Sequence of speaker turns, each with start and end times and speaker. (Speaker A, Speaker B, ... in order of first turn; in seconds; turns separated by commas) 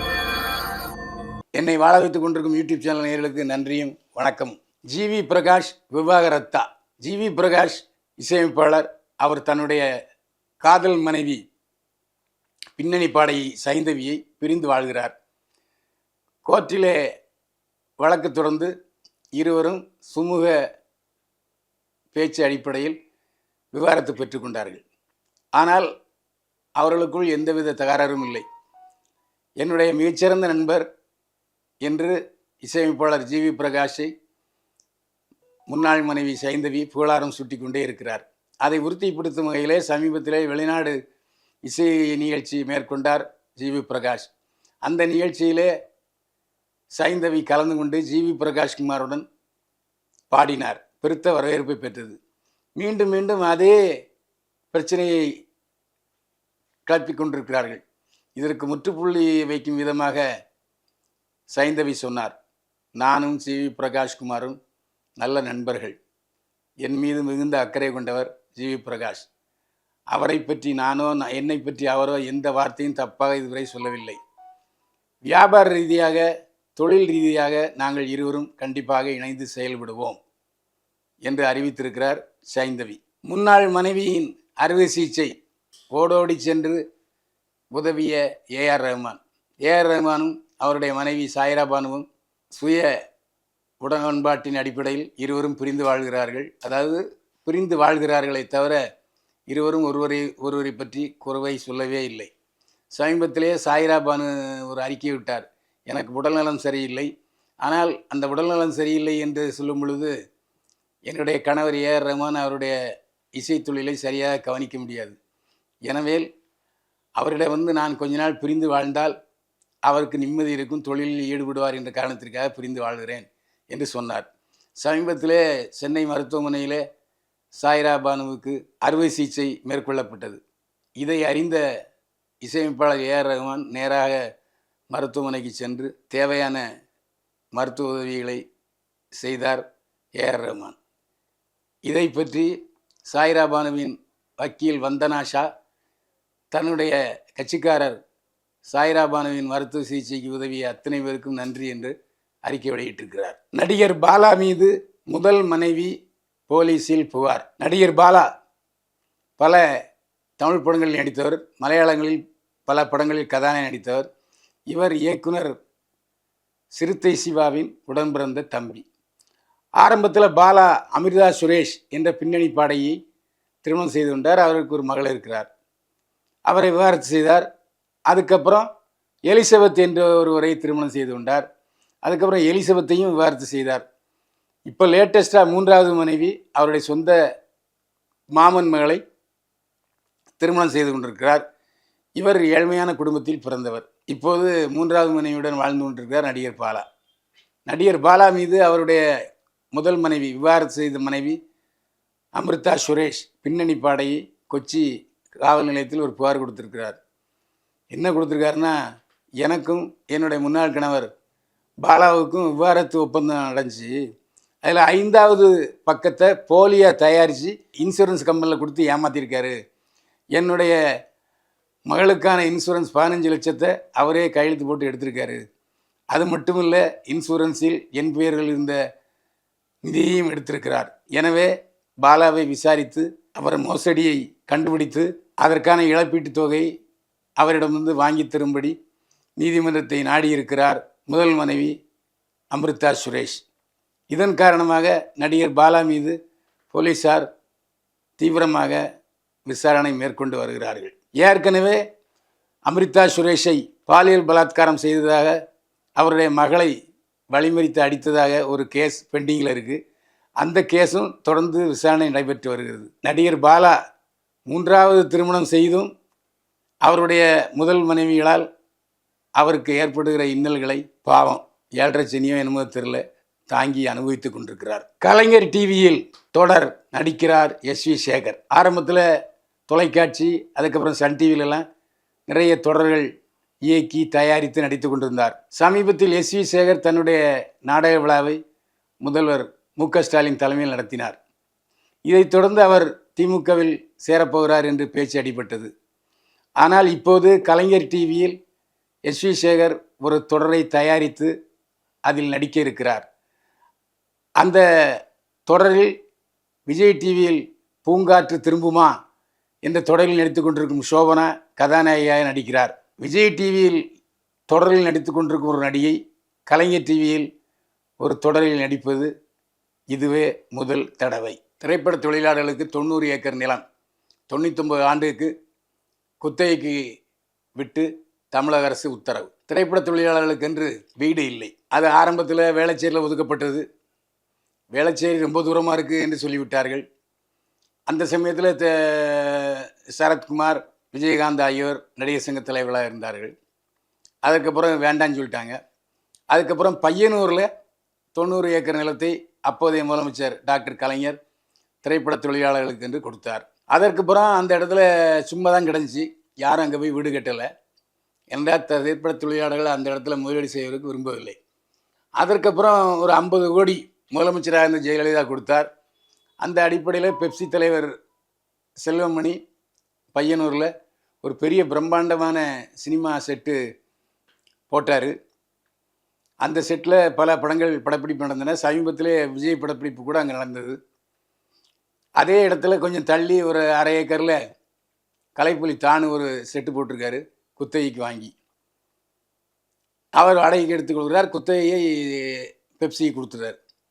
Speaker A: 1.5-9.9, Speaker A: 10.6-11.4, Speaker A: 12.8-15.1, Speaker A: 16.4-17.0, Speaker A: 18.0-18.7, Speaker A: 19.4-20.5, Speaker A: 22.1-23.0, Speaker A: 23.7-24.8, Speaker A: 25.6-25.9, Speaker A: 26.8-28.4, Speaker A: 29.6-30.8, Speaker A: 31.8-34.1, Speaker A: 35.7-41.0, Speaker A: 41.6-44.3, Speaker A: 44.8-45.7, Speaker A: 47.0-49.2, Speaker A: 50.3-52.2, Speaker A: 52.8-53.8, Speaker A: 54.7-55.2, Speaker A: 56.9-57.8, Speaker A: 58.4-60.2, Speaker A: 61.5-62.3, Speaker A: 63.0-64.6, Speaker A: 65.2-66.0, Speaker A: 66.8-69.3, Speaker A: 70.1-74.2, Speaker A: 75.3-76.2, Speaker A: 76.8-80.2, Speaker A: 81.2-85.3, Speaker A: 85.9-86.8, Speaker A: 87.7-92.9, Speaker A: 93.8-98.8, Speaker A: 99.5-102.3, Speaker A: 102.9-107.1, Speaker A: 107.6-110.1, Speaker A: 111.1-112.8, Speaker A: 113.4-115.2, Speaker A: 115.9-116.2, Speaker A: 117.2-119.2, Speaker A: 119.9-124.2, Speaker A: 124.8-126.8, Speaker A: 127.5-130.4, Speaker A: 131.0-131.6, Speaker A: 132.4-134.2, Speaker A: 134.9-136.6, Speaker A: 137.6-138.4, Speaker A: 139.1-139.7, Speaker A: 140.2-140.8, Speaker A: 141.8-142.5, Speaker A: 143.1-145.5, Speaker A: 146.5-148.0, Speaker A: 148.7-151.9, Speaker A: 152.4-155.9, Speaker A: 156.5-158.3, Speaker A: 159.4-159.6, Speaker A: 160.4-164.1, Speaker A: 164.7-165.6, Speaker A: 166.7-168.8, Speaker A: 169.8-173.0, Speaker A: 173.6-175.5, Speaker A: 176.5-177.5, Speaker A: 178.1-178.7, Speaker A: 179.3-181.4, Speaker A: 182.0-183.8, Speaker A: 184.7-187.2, Speaker A: 188.3-189.0, Speaker A: 190.4-191.4, Speaker A: 192.2-196.8, Speaker A: 197.7-199.0, Speaker A: 199.7-201.4, Speaker A: 202.3-204.8, Speaker A: 205.4-207.0, Speaker A: 207.9-208.8, Speaker A: 209.4-211.1, Speaker A: 211.8-214.0, Speaker A: 214.6-219.6, Speaker A: 220.3-220.8, Speaker A: 221.8-225.4, Speaker A: 226.1-228.8, Speaker A: 229.8-231.5, Speaker A: 232.0-236.7, Speaker A: 237.4-238.8, Speaker A: 239.4-241.7, Speaker A: 242.5-243.4, Speaker A: 244.1-246.2, Speaker A: 246.7-247.2, Speaker A: 248.2-248.8, Speaker A: 249.4-251.8, Speaker A: 252.7-255.4, Speaker A: 256.0-256.7, Speaker A: 257.3-259.8, Speaker A: 260.4-263.8, Speaker A: 264.5-265.9, Speaker A: 266.8-268.4, Speaker A: 269.4-279.1, Speaker A: 279.7-281.6, Speaker A: 282.3-283.1, Speaker A: 283.6-288.4, Speaker A: 289.0-291.2, Speaker A: 292.1-295.7, Speaker A: 296.6-298.4, Speaker A: 299.1-301.3, Speaker A: 302.1-303.1, Speaker A: 304.4-305.9, Speaker A: 306.7-308.9, Speaker A: 309.6-313.8, Speaker A: 314.5-317.2, Speaker A: 318.0-319.1, Speaker A: 319.9-323.6, Speaker A: 324.3-325.3, Speaker A: 326.2-326.8, Speaker A: 327.6-333.6, Speaker A: 334.7-336.9, Speaker A: 337.9-343.3, Speaker A: 344.2-345.6, Speaker A: 346.3-347.5, Speaker A: 348.1-351.2, Speaker A: 351.8-357.5, Speaker A: 358.3-361.4, Speaker A: 362.2-365.7, Speaker A: 366.4-367.9, Speaker A: 368.8-369.4, Speaker A: 370.1-370.7, Speaker A: 371.2-373.6, Speaker A: 374.7-375.1, Speaker A: 376.4-380.8, Speaker A: 382.2-384.4, Speaker A: 385.4-388.3, Speaker A: 390.2-393.6